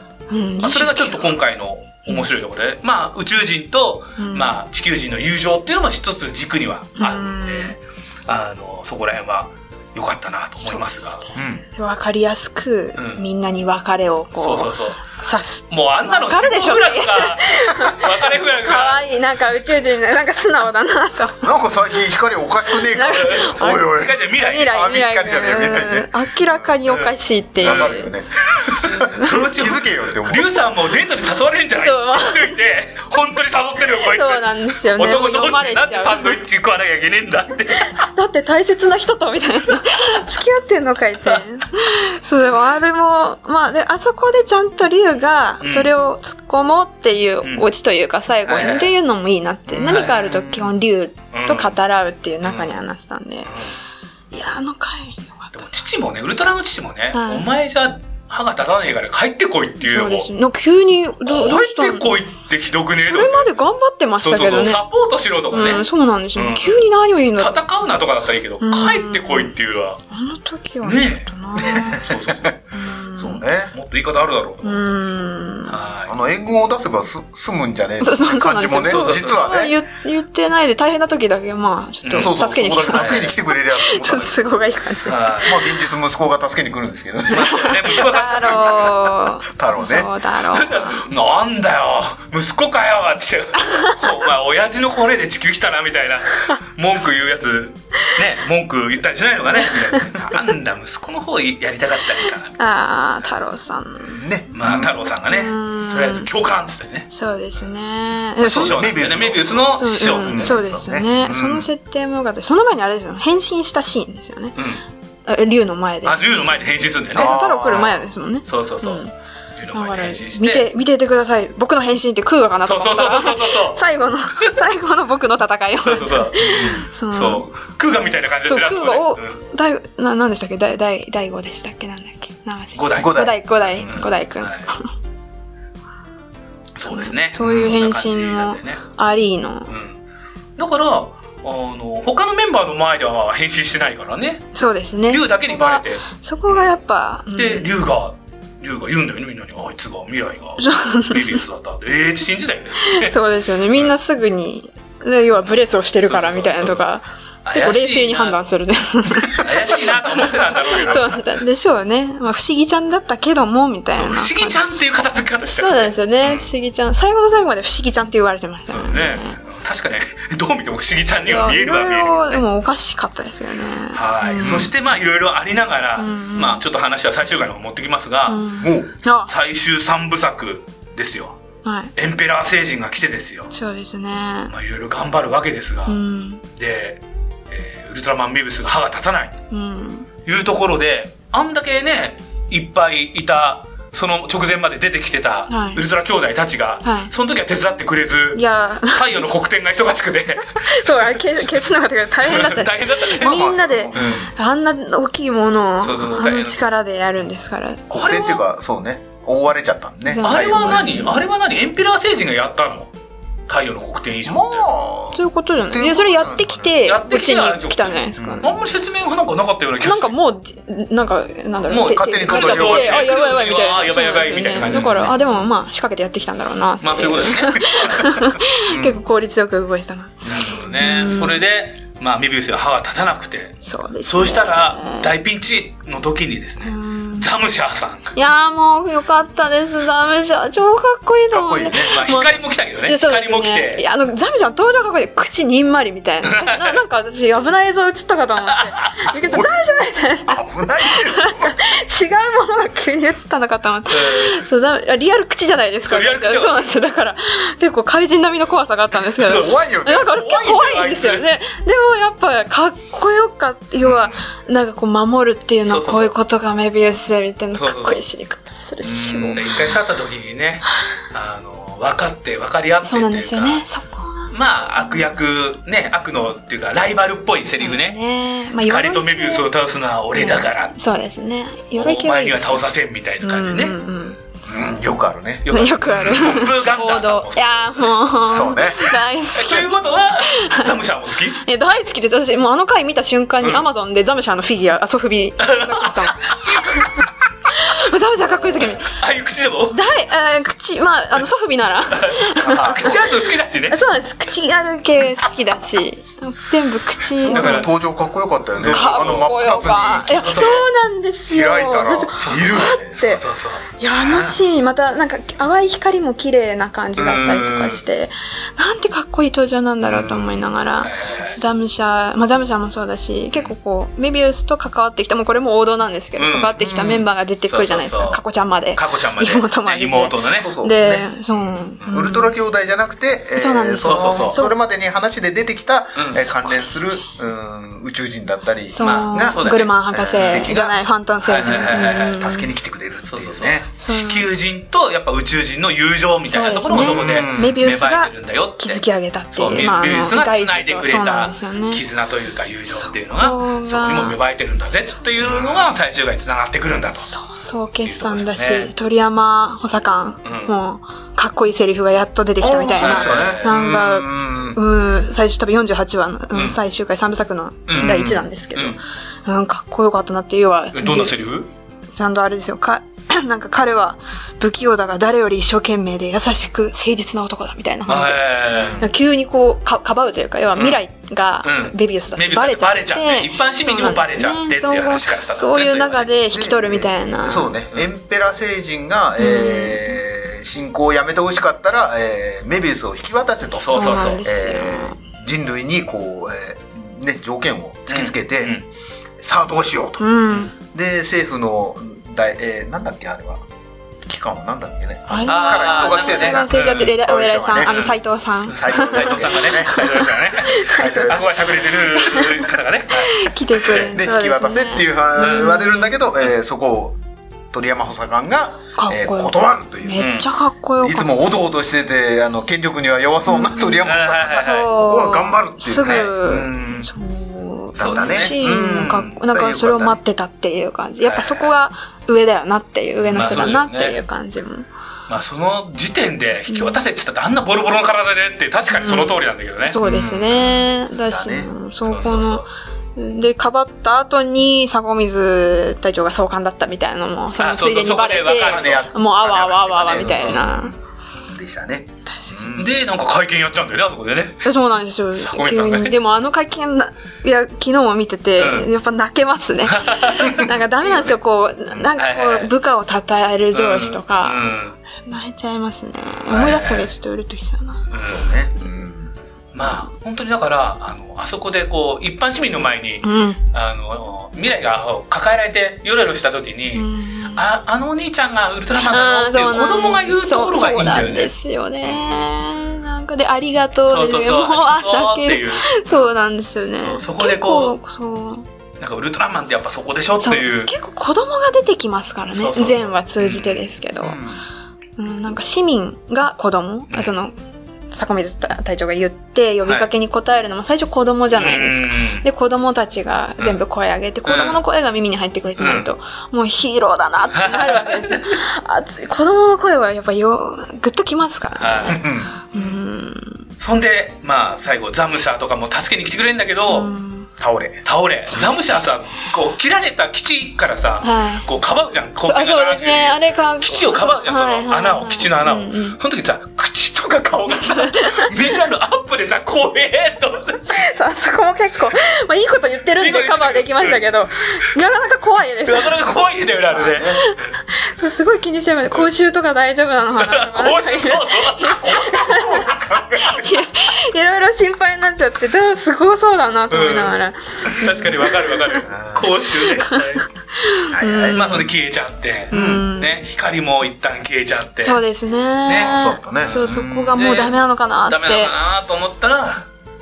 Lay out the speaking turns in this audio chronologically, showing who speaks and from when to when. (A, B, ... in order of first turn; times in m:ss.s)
0:00.3-0:01.3 A
0:00.6-0:11.2 B
0:04.2-0:04.5 A
0:07.0-0:07.7 A
0:10.6-0:21.5 A
0:11.3-0:11.6 C
0:13.0-0:13.2 B
0:14.4-0:15.0 B
0:15.7-0:19.0 B
0:21.4-0:26.1 C
0:22.8-0:28.1 A
0:23.1-0:24.7 B
0:26.9-0:28.0 B
0:27.6-0:30.5 C
0:28.6-0:38.0 B
0:28.7-0:29.4 A
0:31.8-0:32.6 A
0:33.9-0:36.4 A
0:37.8-0:53.5 A
0:45.6-0:45.9 B
0:48.4-0:48.9 B
0:49.7-0:50.6 B
0:51.3-0:51.8 B
0:52.4-0:52.7 B
0:53.5-0:53.7 B
0:54.3-0:55.5 A
0:55.5-1:00.3 B
0:57.1-0:57.5 A
0:59.8-1:02.1 A
1:01.2-1:03.5 B
1:03.0-1:04.8 A
1:04.2-1:06.8 B
1:05.5-1:07.6 A
1:07.4-1:10.0 B
1:08.6-1:09.5 A
1:10.1-1:12.0 A
1:10.8-1:12.5 B
1:11.6-1:12.6 C
1:12.7-1:13.4 A
1:13.2-1:13.7 C
1:13.7-1:14.8 B
1:14.6-1:15.8 A
1:15.7-1:16.1 B
1:16.1-1:19.8 C
1:18.0-1:25.4 A
1:18.8-1:19.4 B
1:22.0-1:23.3 B
1:22.1-1:24.5 C
1:25.0-1:25.6 B
1:25.4-1:30.1 C
1:27.3-1:29.0 B
1:27.4-1:31.0 A
1:30.5-1:42.6 B
1:39.6-1:40.0 A
1:42.6-1:44.2 A
1:44.1-1:44.9 C
1:44.5-1:47.1 B
1:45.2-1:46.3 A
1:47.1-1:48.9 A
1:48.4-1:50.6 B
1:48.4-1:51.7 C
1:49.8-1:54.5 A
1:54.5-1:54.8 B
1:55.3-1:59.1 A
1:56.0-1:57.9 B
1:57.1-1:58.0 C
1:58.4-1:59.0 B
1:59.6-2:00.7 B
1:59.7-2:07.5 A
2:02.6-2:03.8 B
2:05.8-2:09.4 B
2:08.4-2:14.9 A
2:12.8-2:13.3 B
2:12.9-2:13.4 C
2:13.8-2:14.7 B
2:16.8-2:18.8 B
2:16.9-2:19.7 A
2:17.4-2:17.7 C
2:19.7-2:20.0 B
2:20.6-2:24.4 B
2:24.5-2:27.7 A
2:25.1-2:26.7 B
2:27.3-2:33.2 B
2:30.6-2:31.4 A
2:32.8-2:44.6 A
2:36.0-2:36.8 B
2:37.4-2:38.4 B
2:39.3-2:41.2 B
2:43.9-2:46.5 B
2:45.4-2:49.4 A
2:48.7-2:52.4 B
2:51.2-2:54.7 A
2:53.9-2:58.5 B
2:54.4-2:54.7 C
2:56.0-2:56.6 A
2:58.3-2:59.3 A
2:58.6-2:58.9 C
2:59.2-3:01.4 B
3:01.6-3:01.9 A
3:01.9-3:03.5 B
3:03.5-3:04.5 A
3:04.5-3:06.0 B
3:05.9-3:06.4 A
3:06.5-3:09.4 B
3:09.5-3:10.1 A
3:10.2-3:21.0 B
3:15.5-3:15.8 A
3:16.8-3:17.1 A
3:18.4-3:19.2 A
3:20.5-3:28.3 A
3:22.2-3:24.2 B
3:23.2-3:24.3 C
3:25.8-3:26.6 B
3:27.9-3:31.0 C
3:27.9-3:28.4 B
3:30.1-3:31.2 A
3:30.2-3:32.9 B
3:33.5-3:34.7 B
3:34.2-3:36.7 C
3:35.1-3:38.7 A
3:36.8-3:40.1 B
3:38.2-3:38.5 C
3:39.8-3:51.4 A
3:41.7-3:45.1 B
3:41.8-3:43.1 C
3:44.6-3:45.5 C
3:46.8-3:48.2 B
3:47.4-3:48.0 C
3:48.7-3:49.0 C
3:50.2-3:58.1 B
3:53.6-3:55.1 A
3:56.6-3:57.3 A
3:58.1-4:29.5 A
4:01.3-4:02.0 C
4:01.9-4:03.8 B
4:06.2-4:06.8 B
4:08.5-4:09.1 B
4:09.2-4:09.6 C
4:10.2-4:11.6 C
4:13.9-4:14.4 B
4:15.9-4:16.7 B
4:19.2-4:20.1 C
4:19.2-4:21.3 B
4:25.6-4:26.1 B
4:27.5-4:28.0 B
4:28.9-4:33.6 B
4:29.1-4:29.6 C
4:32.8-4:35.1 A
4:34.3-4:38.0 B
4:37.6-4:39.4 A
4:38.6-4:40.8 B
4:40.1-4:42.6 A
4:41.7-4:43.8 B
4:43.2-4:44.2 A
4:44.4-4:45.5 C
4:45.4-4:47.9 B
4:45.5-4:49.7 A
4:48.3-4:49.0 C
4:49.3-4:51.4 B
4:50.2-4:50.7 A
4:51.4-4:56.9 A
4:55.4-4:56.9 B
4:57.5-4:59.0 A
4:58.5-4:59.8 B
4:59.7-5:07.7 A
5:01.9-5:03.8 B
5:02.4-5:03.0 C
5:07.2-5:10.6 C
5:07.2-5:07.7 B
5:08.6-5:09.3 B
5:08.7-5:32.3 A
5:10.2-5:10.6 B
5:11.3-5:13.2 C
5:12.2-5:13.7 B
5:14.0-5:14.4 C
5:17.0-5:17.8 B
5:19.8-5:20.5 C
5:20.8-5:21.4 B
5:26.2-5:28.2 B
5:26.6-5:27.0 C
5:28.7-5:30.5 B
5:30.4-5:40.8 C
5:31.8-5:32.1 B
5:33.4-5:34.5 A
5:33.8-5:34.4 B
5:36.0-5:36.3 B
5:36.2-5:37.0 A
5:38.7-5:42.5 A
5:38.8-5:40.6 B
5:41.2-5:42.2 B
5:41.4-5:43.7 C
5:43.1-5:48.8 B
5:43.8-5:44.3 A
5:46.2-5:51.8 A
5:46.7-5:47.6 C
5:49.3-5:57.1 B
5:52.7-5:54.2 A
5:55.2-5:55.7 C
5:57.0-6:11.1 A
5:57.8-5:58.7 B
6:00.2-6:00.5 B
6:02.4-6:04.6 C
6:02.8-6:03.5 B
6:06.3-6:06.6 B
6:07.7-6:08.8 B
6:07.7-6:08.3 C
6:10.7-6:11.5 B
6:12.0-6:27.5 A
6:17.9-6:18.8 B
6:18.6-6:18.9 C
6:21.4-6:26.1 B
6:26.3-6:38.6 C
6:29.2-6:30.0 A
6:33.6-6:34.2 B
6:33.7-6:35.0 A
6:37.9-6:38.6 B
6:39.2-6:43.4 C
6:40.0-6:40.5 A
6:44.1-6:47.8 C
6:45.1-6:51.2 A
6:45.2-6:46.9 B
6:47.6-6:53.9 B
6:48.5-6:51.4 C
6:51.9-6:56.0 A
6:53.7-6:57.0 C
6:55.2-6:55.6 B
6:57.5-7:00.2 C
6:58.7-7:01.2 A
7:00.0-7:00.3 B
7:00.8-7:06.9 C
7:03.3-7:14.7 A
7:03.8-7:04.7 B
7:07.8-7:10.0 C
7:07.8-7:08.4 B
7:11.0-7:11.5 B
7:13.0-7:13.5 C
7:13.1-7:14.0 B
7:15.1-7:19.8 B
7:16.5-7:16.8 A
7:18.7-7:30.7 A
7:19.8-7:21.5 C
7:21.8-7:22.4 B
7:27.4-7:28.9 B
7:28.4-7:30.7 C
7:30.0-7:30.4 B
7:31.3-7:32.7 C
7:32.1-7:32.4 A
7:32.6-7:34.5 B
7:34.4-7:44.4 A
7:35.1-7:36.0 B
7:38.4-7:38.7 B
7:39.6-7:40.5 B
7:40.8-7:41.1 C
7:42.0-7:42.5 B
7:43.5-7:44.8 B
7:45.1-7:47.9 A
7:46.3-7:46.9 B
7:47.9-7:48.3 B
7:48.1-7:49.1 C
7:49.5-8:01.3 B
7:53.0-7:53.4 A
7:56.7-7:57.5 A
7:58.7-8:08.4 A
8:01.9-8:02.2 B
8:03.9-8:06.1 B
8:06.8-8:07.8 B
8:08.8-8:10.7 B
8:10.2-8:14.2 A
8:12.3-8:13.7 B
8:14.0-8:14.4 C
8:15.0-8:17.3 A
8:17.9-8:33.5 A
8:21.3-8:22.2 B
8:24.2-8:24.6 B
8:25.6-8:25.9 B
8:27.3-8:28.4 B
8:31.6-8:32.0 B
8:31.9-8:32.8 C
8:33.6-8:36.9 B
8:36.7-8:37.3 A
8:37.4-8:37.8 C
8:37.8-8:50.8 B
8:38.3-8:38.8 A
8:41.0-8:41.5 A
8:42.2-8:46.0 A
8:47.5-8:48.6 A
8:50.7-8:56.0 A
8:53.0-8:54.0 B
8:55.6-8:57.3 B
8:56.7-8:57.2 C
8:57.1-9:08.8 A
9:00.2-9:01.8 B
9:01.8-9:03.7 C
9:06.7-9:07.2 B
9:07.7-9:10.2 B
9:08.9-9:09.3 C
9:09.4-9:11.6 A
9:10.9-9:11.7 C
9:11.3-9:15.0 B
9:12.5-9:13.2 A
9:12.5-9:12.9 C
9:14.8-9:18.5 A
9:15.6-9:19.7 B
9:15.7-9:17.3 C